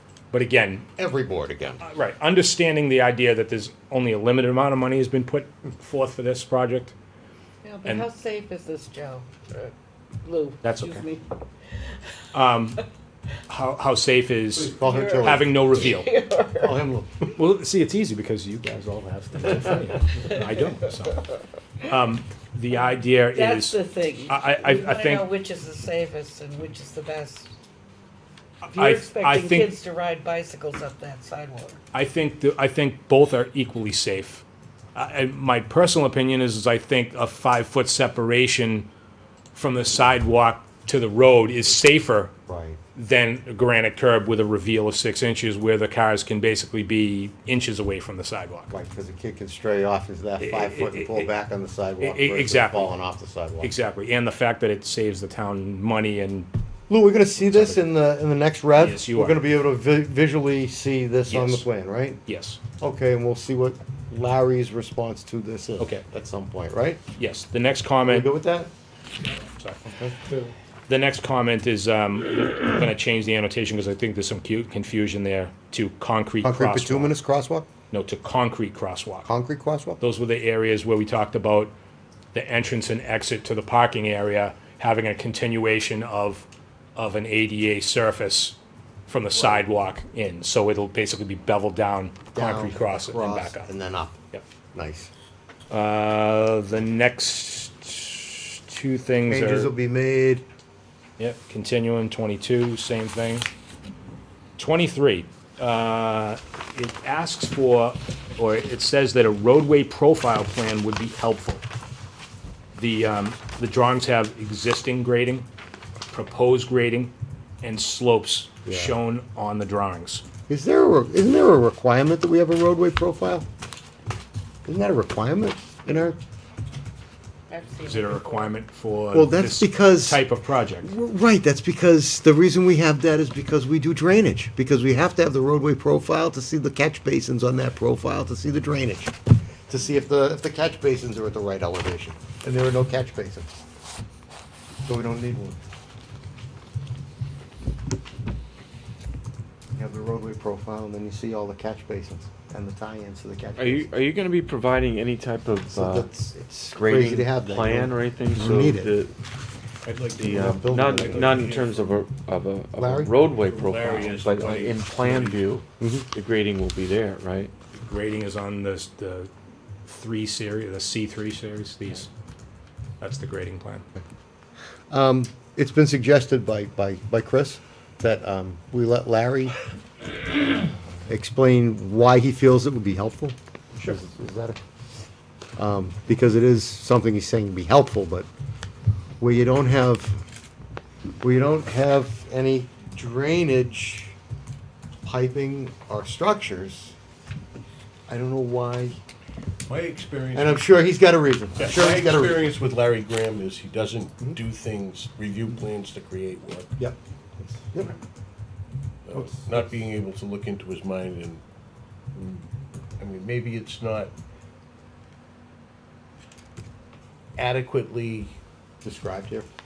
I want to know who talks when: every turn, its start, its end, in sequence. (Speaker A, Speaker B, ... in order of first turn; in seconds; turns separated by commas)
Speaker A: 0.3-0.9, Speaker B: 1.0-1.8, Speaker A: 1.8-7.0, Speaker C: 7.6-9.7, Speaker C: 10.2-11.3, Speaker A: 10.6-11.1, Speaker A: 12.3-12.8, Speaker A: 13.5-16.1, Speaker B: 14.6-15.6, Speaker C: 14.8-16.8, Speaker B: 16.6-17.1, Speaker A: 17.3-21.3, Speaker A: 21.8-25.3, Speaker C: 23.2-27.5, Speaker A: 28.7-29.7, Speaker C: 28.7-31.8, Speaker A: 31.9-38.9, Speaker A: 39.5-42.3, Speaker B: 42.5-42.8, Speaker A: 43.0-48.7, Speaker B: 48.7-53.7, Speaker A: 50.4-51.3, Speaker A: 52.0-52.9, Speaker A: 53.6-56.5, Speaker B: 56.9-62.2, Speaker A: 57.4-57.8, Speaker A: 58.8-59.5, Speaker A: 61.3-61.7, Speaker A: 62.3-62.6, Speaker B: 62.8-67.0, Speaker A: 65.8-66.0, Speaker A: 67.2-68.3, Speaker B: 68.1-68.7, Speaker A: 69.6-69.9, Speaker B: 69.8-70.2, Speaker A: 70.9-77.1, Speaker B: 76.4-77.7, Speaker A: 77.9-79.3, Speaker B: 79.2-80.0, Speaker A: 80.0-81.7, Speaker A: 82.3-93.7, Speaker B: 89.4-89.6, Speaker B: 92.3-94.2, Speaker B: 94.7-95.1, Speaker A: 95.7-99.7, Speaker B: 99.3-100.5, Speaker A: 101.2-103.5, Speaker A: 104.6-111.6, Speaker A: 112.8-115.5, Speaker A: 116.1-120.2, Speaker B: 118.7-119.0, Speaker B: 120.5-123.5, Speaker B: 124.7-126.2, Speaker C: 127.5-128.5, Speaker A: 127.8-130.9, Speaker B: 129.1-130.2, Speaker B: 130.8-139.2, Speaker B: 139.7-143.6, Speaker B: 144.9-145.6, Speaker B: 149.8-153.9, Speaker D: 153.6-156.1, Speaker B: 155.7-158.9, Speaker D: 156.7-159.1, Speaker E: 159.8-162.1, Speaker D: 160.2-167.5, Speaker B: 160.2-161.5, Speaker B: 162.8-163.2, Speaker E: 163.3-165.6, Speaker B: 165.8-166.1, Speaker A: 167.7-169.3, Speaker A: 169.9-172.1, Speaker A: 173.0-173.9, Speaker B: 174.9-179.6, Speaker B: 181.1-184.6, Speaker B: 185.6-188.3, Speaker B: 189.2-190.2, Speaker B: 191.2-194.2, Speaker B: 195.0-196.9, Speaker B: 198.1-199.0, Speaker E: 199.7-200.6, Speaker B: 200.3-202.5, Speaker E: 201.6-206.7, Speaker B: 206.8-207.9, Speaker E: 209.1-211.4, Speaker B: 209.1-209.6, Speaker E: 212.1-214.1, Speaker E: 217.4-218.3, Speaker B: 218.8-219.5